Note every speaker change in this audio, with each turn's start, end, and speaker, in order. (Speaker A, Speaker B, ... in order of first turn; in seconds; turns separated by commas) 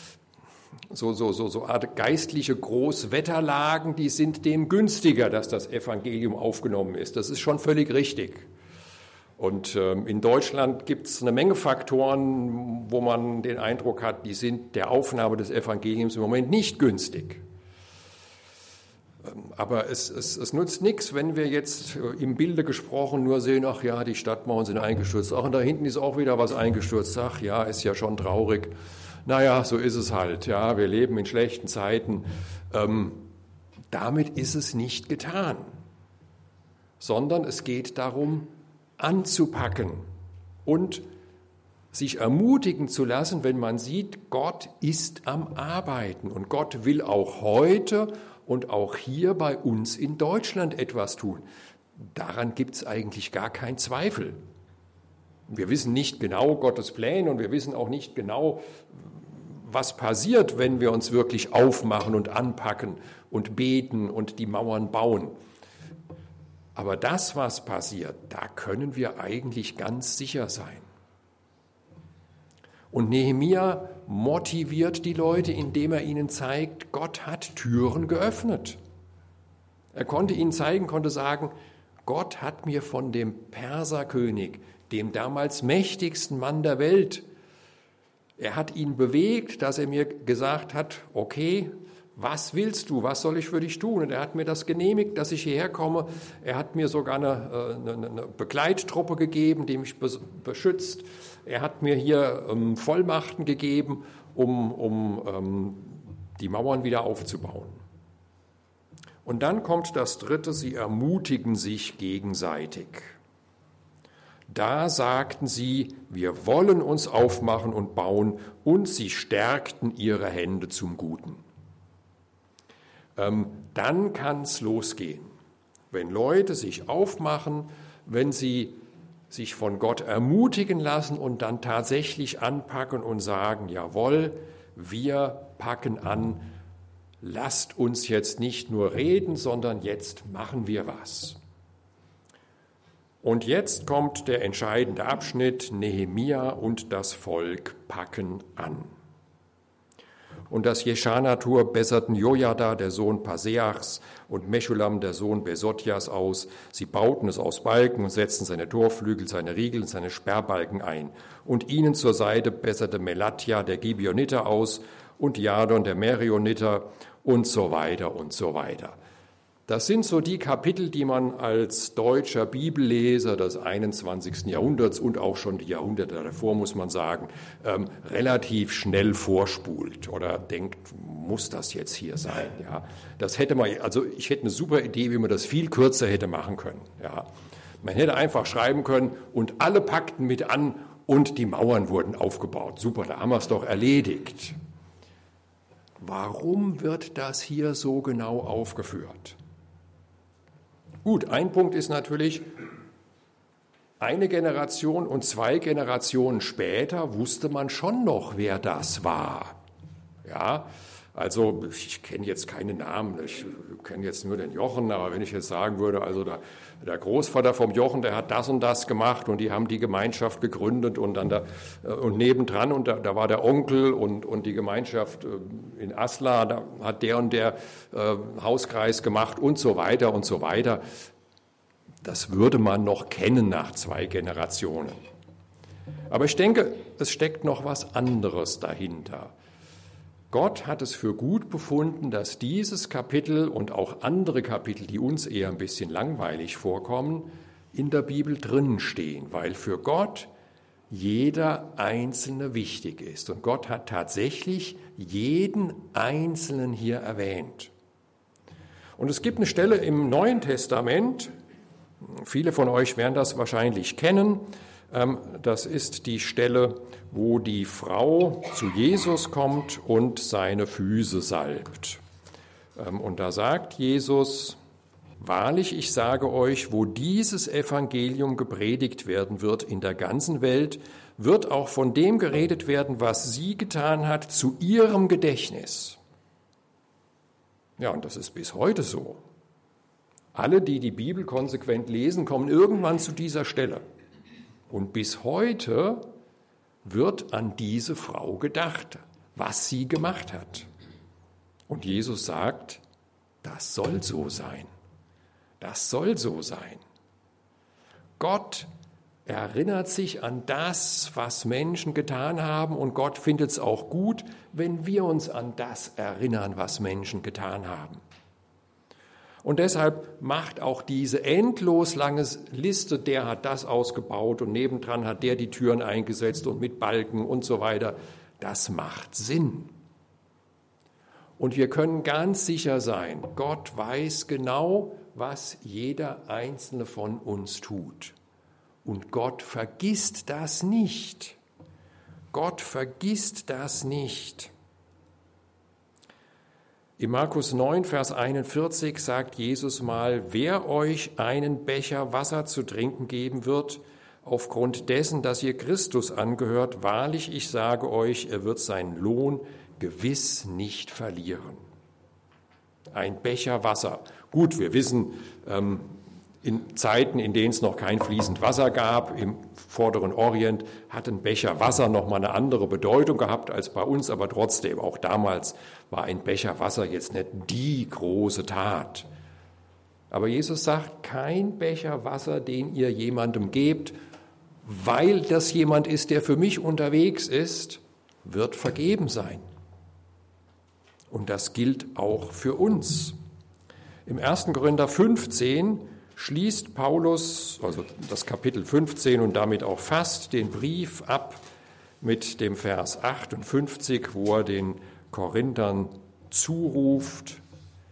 Speaker A: 0.9-8.5, Speaker A: 9.4-17.4, Speaker A: 19.2-28.7, Speaker A: 29.2-33.3, Speaker A: 33.9-35.7, Speaker A: 37.0-40.0, Speaker A: 40.6-41.0, Speaker A: 41.9-51.4, Speaker A: 52.1-54.4, Speaker A: 55.5-65.3, Speaker A: 66.7-70.9, Speaker A: 72.9-78.8, Speaker A: 79.9-81.5, Speaker A: 82.0-87.2, Speaker A: 88.4-107.8, Speaker A: 109.2-113.2, Speaker A: 114.5-121.4, Speaker A: 123.2-125.3, Speaker A: 125.9-128.8, Speaker A: 129.3-136.5, Speaker A: 137.2-141.4, Speaker A: 143.2-148.9, Speaker A: 150.5-169.0, Speaker A: 169.7-187.3, Speaker A: 187.8-194.6, Speaker A: 196.0-199.4, Speaker A: 201.0-202.5, Speaker A: 204.0-209.6, Speaker A: 210.2-230.8, Speaker A: 232.0-235.0, Speaker A: 236.1-239.3, Speaker A: 240.3-250.3, Speaker A: 250.9-257.7, Speaker A: 259.0-261.3, Speaker A: 262.1-272.0, Speaker A: 272.8-274.6, Speaker A: 275.2-286.0, Speaker A: 287.8-289.2, Speaker A: 290.3-293.8, Speaker A: 294.7-296.1, Speaker A: 296.8-300.7, Speaker A: 301.7-302.8, Speaker A: 303.4-304.7, Speaker A: 305.6-306.8, Speaker A: 308.2-308.7, Speaker A: 309.2-318.0, Speaker A: 319.4-329.7, Speaker A: 331.4-338.1, Speaker A: 338.8-341.4, Speaker A: 342.3-344.5, Speaker A: 347.0-361.6, Speaker A: 362.9-379.1, Speaker A: 380.1-383.9, Speaker A: 384.6-389.4, Speaker A: 391.1-393.1, Speaker A: 394.1-401.4, Speaker A: 402.0-407.4